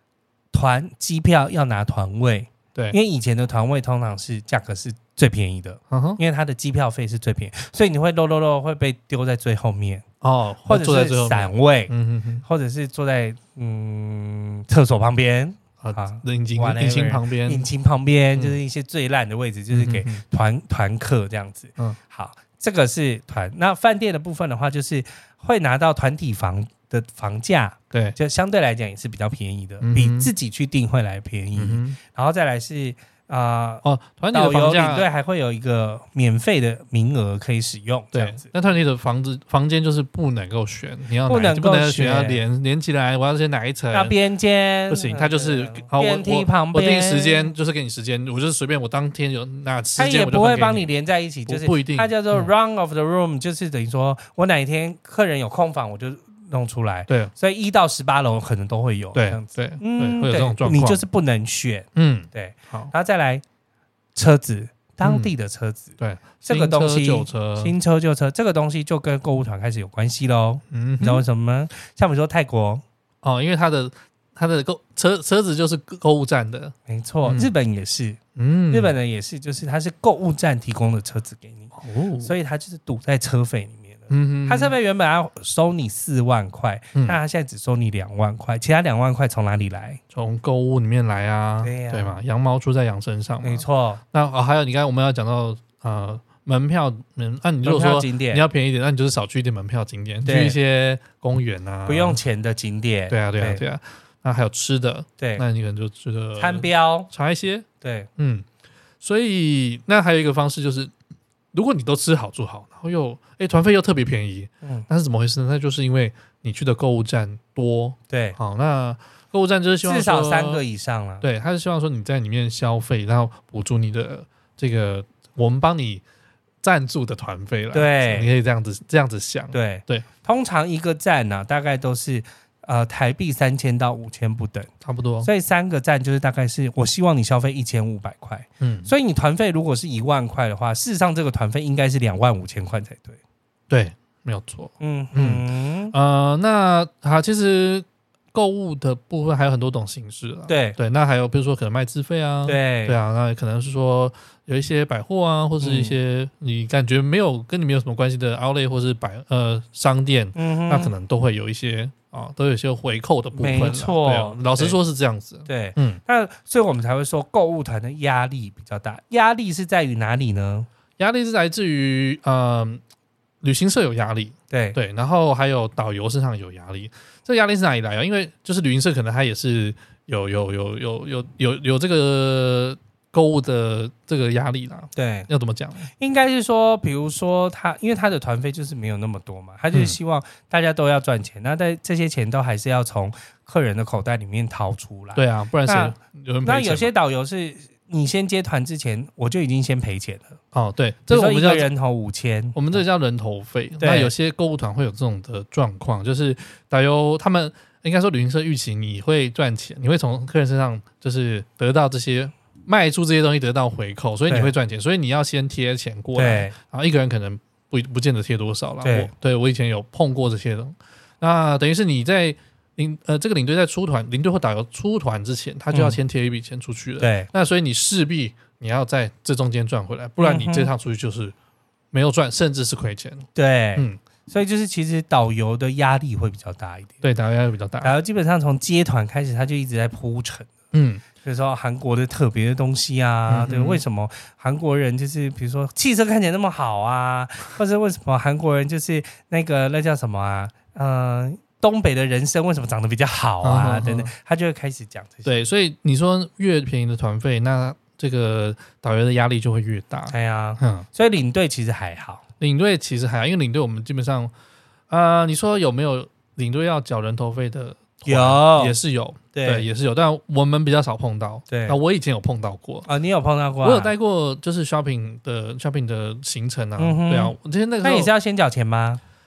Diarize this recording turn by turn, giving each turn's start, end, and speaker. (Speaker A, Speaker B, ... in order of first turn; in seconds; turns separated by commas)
Speaker A: 0.5-10.0, Speaker B: 5.9-6.2, Speaker B: 10.2-12.4, Speaker A: 10.7-11.9, Speaker A: 12.4-38.5, Speaker B: 15.8-17.7, Speaker B: 18.3-18.6, Speaker B: 19.7-20.2, Speaker B: 27.9-28.2, Speaker B: 29.8-30.3, Speaker B: 31.6-32.0, Speaker B: 33.8-35.1, Speaker B: 38.1-44.1, Speaker A: 41.3-42.4, Speaker A: 43.9-47.5, Speaker B: 44.9-50.9, Speaker A: 50.0-63.4, Speaker B: 51.5-52.5, Speaker B: 59.1-61.0, Speaker B: 61.9-62.9, Speaker A: 64.1-72.8, Speaker B: 65.0-65.3, Speaker B: 66.0-67.7, Speaker B: 70.7-71.2, Speaker B: 73.2-76.7, Speaker A: 76.9-78.2, Speaker B: 77.2-77.5, Speaker B: 78.3-78.9, Speaker A: 78.7-90.0, Speaker B: 81.8-82.3, Speaker B: 84.1-84.7, Speaker B: 90.1-102.2, Speaker A: 91.6-92.2, Speaker A: 93.4-94.0, Speaker A: 97.6-98.4, Speaker A: 100.2-100.6, Speaker A: 101.8-103.6, Speaker B: 103.1-107.7, Speaker A: 105.2-105.4, Speaker A: 106.4-107.1, Speaker A: 107.8-108.1, Speaker B: 108.2-108.5, Speaker B: 109.0-110.9, Speaker B: 111.5-120.6, Speaker A: 118.1-118.4, Speaker A: 119.8-121.2, Speaker B: 121.2-126.0, Speaker B: 126.6-130.1, Speaker A: 127.7-128.3, Speaker A: 129.5-134.7, Speaker B: 134.8-135.3, Speaker A: 135.2-143.2, Speaker B: 138.6-138.9, Speaker B: 143.7-166.0, Speaker A: 144.8-145.9, Speaker A: 150.5-150.8, Speaker A: 152.4-152.9, Speaker A: 155.6-156.0, Speaker A: 160.3-160.9, Speaker A: 163.3-164.8, Speaker A: 165.4-170.7, Speaker B: 171.0-172.8, Speaker B: 173.4-185.8, Speaker A: 174.5-174.8, Speaker A: 184.9-185.3, Speaker A: 186.0-200.4, Speaker B: 189.7-190.0, Speaker B: 195.2-196.9, Speaker B: 200.5-201.7, Speaker A: 201.1-202.8, Speaker B: 202.5-231.3, Speaker A: 203.8-204.1, Speaker A: 216.2-216.5, Speaker A: 218.8-219.1, Speaker A: 225.7-226.0, Speaker A: 227.0-227.3, Speaker A: 230.2-230.7, Speaker B: 231.9-234.0, Speaker A: 233.3-237.0, Speaker B: 237.0-237.9, Speaker A: 237.8-240.5, Speaker B: 240.7-241.0, Speaker A: 241.2-255.3, Speaker B: 243.3-243.8, Speaker B: 253.4-254.1, Speaker B: 255.2-260.9, Speaker A: 260.1-262.2, Speaker B: 262.4-264.3, Speaker B: 264.9-272.9, Speaker A: 268.1-268.7, Speaker A: 269.3-269.7, Speaker A: 271.5-271.8, Speaker A: 272.9-273.9, Speaker B: 273.6-278.1, Speaker A: 276.8-279.0